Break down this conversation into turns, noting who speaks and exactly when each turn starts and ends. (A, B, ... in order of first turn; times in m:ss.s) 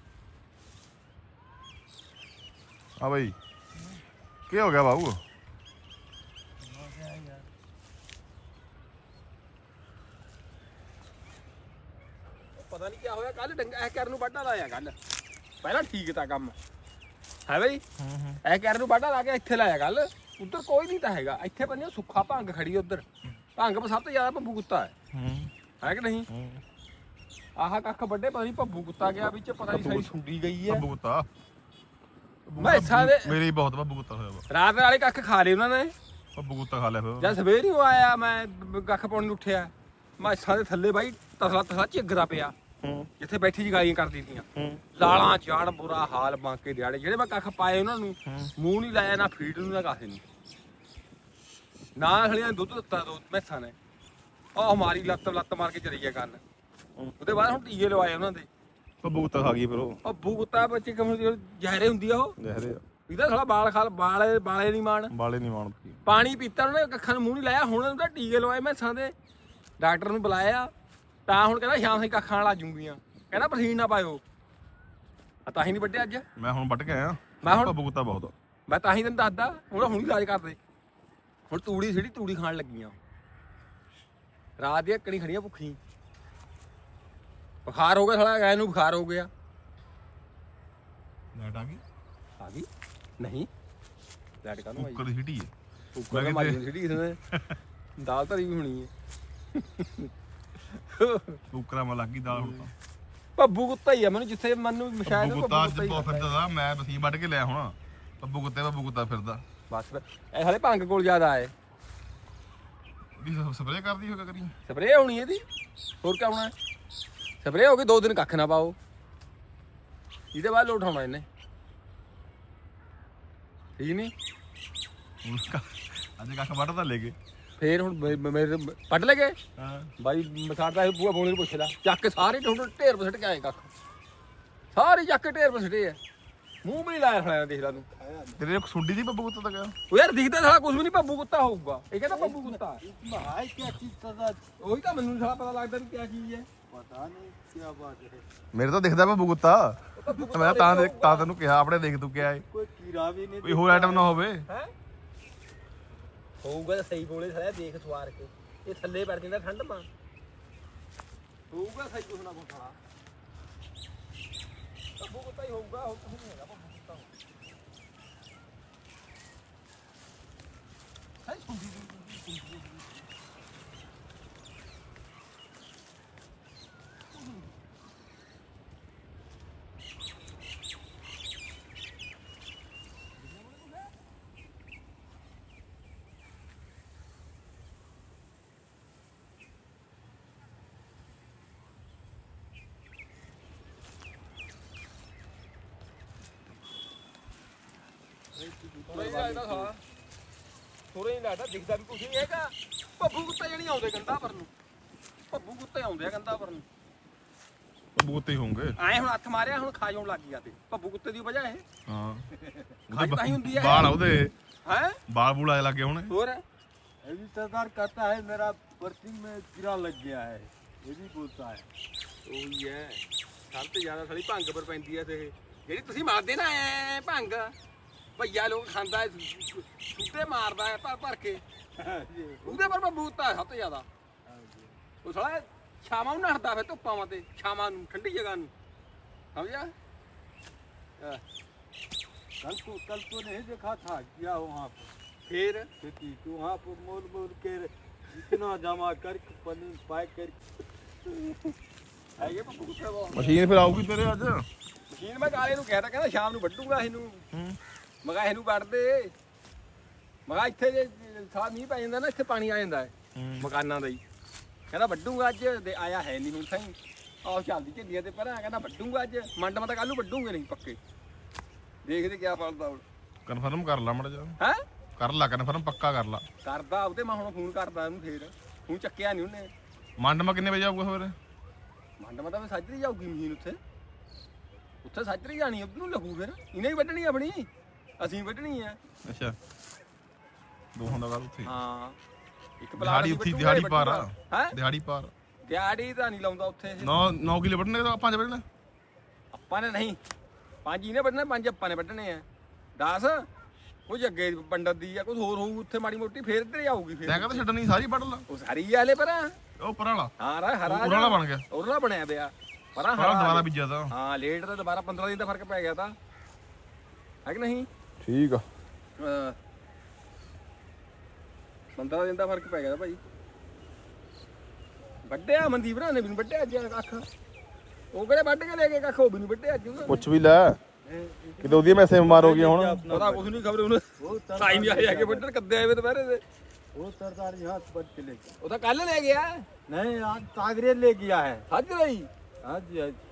0:03.0-0:03.4 A
0:04.5-0:05.2 A
0:06.6-0:07.4 B
0:12.6-0:14.9 C
0:15.6-0:16.5 C
0:17.5-0:17.8 C
0:18.0-0:18.4 A
0:18.4-0:23.0 C
0:23.6-0:24.9 C
0:25.1-0:25.5 A
0:25.8-0:26.3 C
0:26.3-0:26.6 A
0:27.6-0:30.8 C
0:29.7-0:30.1 A
0:30.7-0:31.3 A
0:32.4-0:34.4 A
0:32.6-0:33.4 C
0:34.5-0:35.9 C
0:36.4-0:37.4 A
0:37.2-0:42.5 C
0:42.8-0:43.1 A
0:43.2-0:50.2 C
0:44.6-0:44.8 A
0:48.2-0:48.5 A
0:52.0-0:53.7 C
0:54.6-0:56.4 C
0:57.2-0:58.5 C
0:59.0-1:00.0 A
1:00.0-1:02.4 C
1:02.4-1:02.8 A
1:03.1-1:05.1 C
1:05.1-1:06.0 A
1:06.0-1:09.1 C
1:09.8-1:10.7 C
1:11.3-1:14.2 C
1:15.4-1:16.2 C
1:16.4-1:18.3 A
1:17.4-1:17.8 C
1:18.7-1:20.6 C
1:21.5-1:23.0 C
1:24.6-1:25.8 C
1:27.6-1:29.3 C
1:31.3-1:31.8 A
1:32.4-1:32.7 C
1:33.2-1:33.5 C
1:34.4-1:35.0 C
1:34.8-1:35.5 A
1:35.9-1:37.2 C
1:36.1-1:36.6 A
1:37.3-1:37.6 A
1:38.0-1:38.9 C
1:39.5-1:40.1 C
1:40.8-1:41.4 C
1:41.5-1:42.7 A
1:42.3-1:42.7 C
1:43.4-1:46.3 C
1:45.0-1:49.4 A
1:49.7-1:51.5 C
1:53.2-1:54.5 A
1:54.7-1:55.4 C
1:56.0-1:56.5 C
1:57.4-1:58.8 C
2:00.3-2:01.2 C
2:03.8-2:04.1 C
2:05.2-2:07.2 A
2:07.6-2:09.4 C
2:09.6-2:09.9 A
2:10.0-2:13.7 C
2:14.7-2:16.0 C
2:16.6-2:17.9 C
2:18.0-2:18.4 B
2:18.4-2:19.7 A
2:19.9-2:22.8 C
2:22.1-2:24.4 B
2:24.6-2:26.4 C
2:26.7-2:28.2 B
2:28.5-2:32.4 A
2:30.0-2:31.3 C
2:32.5-2:34.1 B
2:33.4-2:34.4 A
2:36.4-2:39.9 C
2:41.5-2:42.8 C
2:45.0-2:47.1 C
2:51.2-2:53.0 C
3:03.3-3:03.7 C
3:18.3-3:19.7 B
3:18.9-3:19.7 C
3:20.9-3:24.5 C
3:25.3-3:26.6 C
3:28.0-3:28.8 A
3:28.8-3:31.6 C
3:31.9-3:32.2 A
3:32.9-3:34.3 A
3:32.9-3:33.9 C
3:34.6-3:35.0 C
3:35.1-3:36.1 A
3:36.1-3:36.4 C
3:37.0-3:41.6 B
3:42.2-3:47.5 C
3:48.2-3:51.4 C
3:51.8-3:52.8 B
3:52.4-3:53.8 C
3:54.2-3:54.7 B
3:55.0-3:58.5 C
3:59.3-3:59.7 C
4:02.4-4:04.9 B
4:05.3-4:05.7 C
4:05.8-4:10.4 B
4:12.2-4:13.4 C
4:13.1-4:14.4 A
4:14.9-4:17.2 C
4:17.3-4:17.6 A
4:18.0-4:19.1 C
4:20.3-4:24.0 C
4:23.1-4:23.5 A
4:24.7-4:30.8 C
4:31.8-4:32.8 C
4:33.2-4:34.4 A
4:35.0-4:36.2 A
4:36.4-4:39.5 C
4:40.0-4:41.1 A
4:42.0-4:43.6 C
4:44.8-4:47.5 C
4:48.0-4:48.8 C
4:49.0-4:49.4 A
4:50.7-4:51.5 A
4:51.4-4:52.0 C
4:52.6-4:54.6 C
4:52.8-4:55.1 A
4:55.5-4:56.9 C
4:56.8-4:58.4 A
4:59.3-5:00.0 C
5:00.6-5:02.2 C
5:02.8-5:03.3 C
5:03.9-5:07.4 C
5:07.0-5:08.2 A
5:08.3-5:09.3 C
5:09.6-5:10.1 A
5:10.2-5:15.9 C
5:10.6-5:11.4 A
5:13.0-5:13.9 A
5:17.2-5:17.7 C
5:18.0-5:18.4 A
5:19.0-5:19.4 C
5:21.8-5:23.0 C
5:25.1-5:27.0 C
5:27.9-5:30.0 C
5:29.8-5:30.6 A
5:30.8-5:33.4 B
5:31.4-5:32.9 A
5:32.9-5:33.8 C
5:34.0-5:35.2 B
5:34.4-5:36.2 C
5:36.7-5:38.3 B
5:38.4-5:39.4 C
5:39.7-5:41.4 B
5:41.5-5:42.1 C
5:42.4-5:43.0 B